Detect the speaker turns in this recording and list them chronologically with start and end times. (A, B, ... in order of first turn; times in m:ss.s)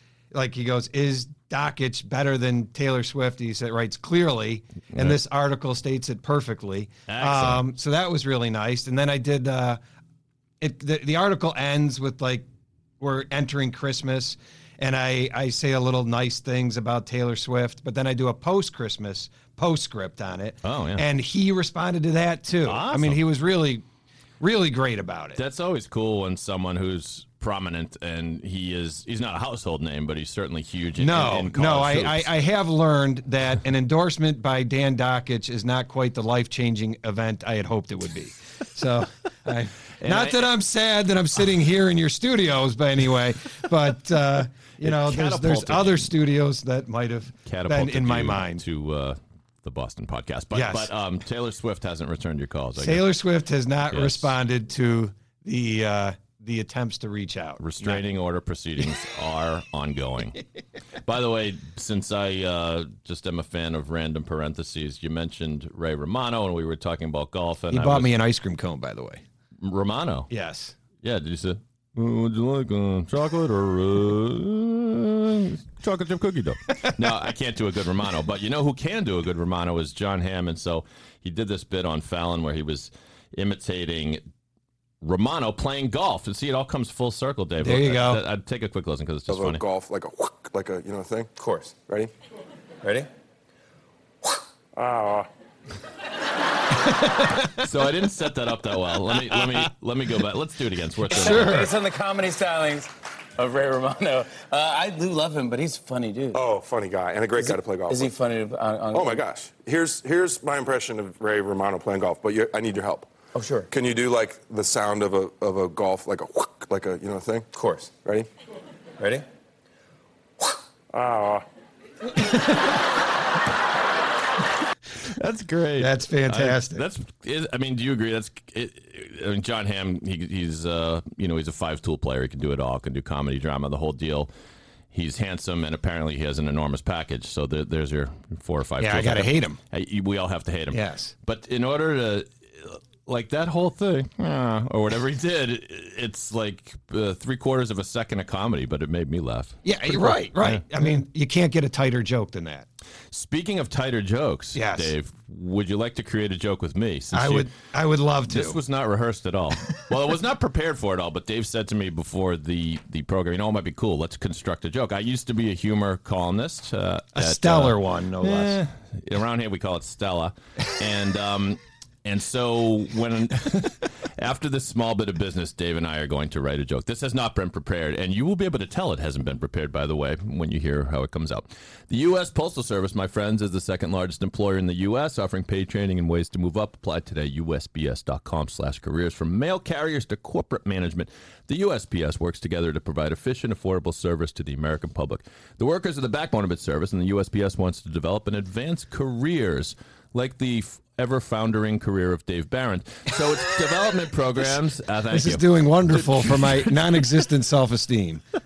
0:00.3-0:09.8 A
0:04.9-0:05.2 B
0:07.1-0:07.6 B
0:10.6-0:12.5 A
0:13.0-0:23.8 A
0:20.6-0:21.0 B
0:22.6-0:23.2 B
0:24.4-0:25.4 A
0:25.4-0:32.3 B
0:31.0-0:48.6 A
0:40.0-0:40.5 B
0:44.8-0:46.1 B
0:47.4-0:53.1 B
0:50.5-0:50.9 A
0:52.8-0:58.0 A
0:53.9-0:54.3 B
0:57.6-1:00.4 B
1:01.0-1:08.1 B
1:07.7-1:09.2 A
1:09.6-1:10.3 B
1:10.3-1:10.8 A
1:11.0-1:24.2 B
1:25.0-1:29.6 B
1:27.6-1:28.2 A
1:29.3-1:31.3 C
1:31.4-1:31.8 D
1:31.9-1:32.1 C
1:32.8-1:33.1 D
1:34.8-1:35.3 C
1:37.4-1:41.7 B
1:41.1-1:46.4 D
1:41.1-1:41.7 A
1:46.3-1:48.1 C
1:47.4-1:49.2 D
1:48.9-1:53.1 C
1:53.4-1:53.7 D
1:53.7-1:57.5 C
1:57.5-1:57.9 D
1:59.0-1:59.2 D
2:00.9-2:01.4 C
2:05.0-2:14.3 B
2:05.8-2:06.8 A
2:14.9-2:30.8 B
2:18.8-2:19.6 A
2:20.7-2:21.1 A
2:29.6-2:32.7 A
2:33.1-2:37.5 B
2:34.5-2:34.9 A
2:37.1-2:38.6 A
2:38.3-3:27.1 B
2:47.2-2:48.6 A
3:25.1-3:28.2 A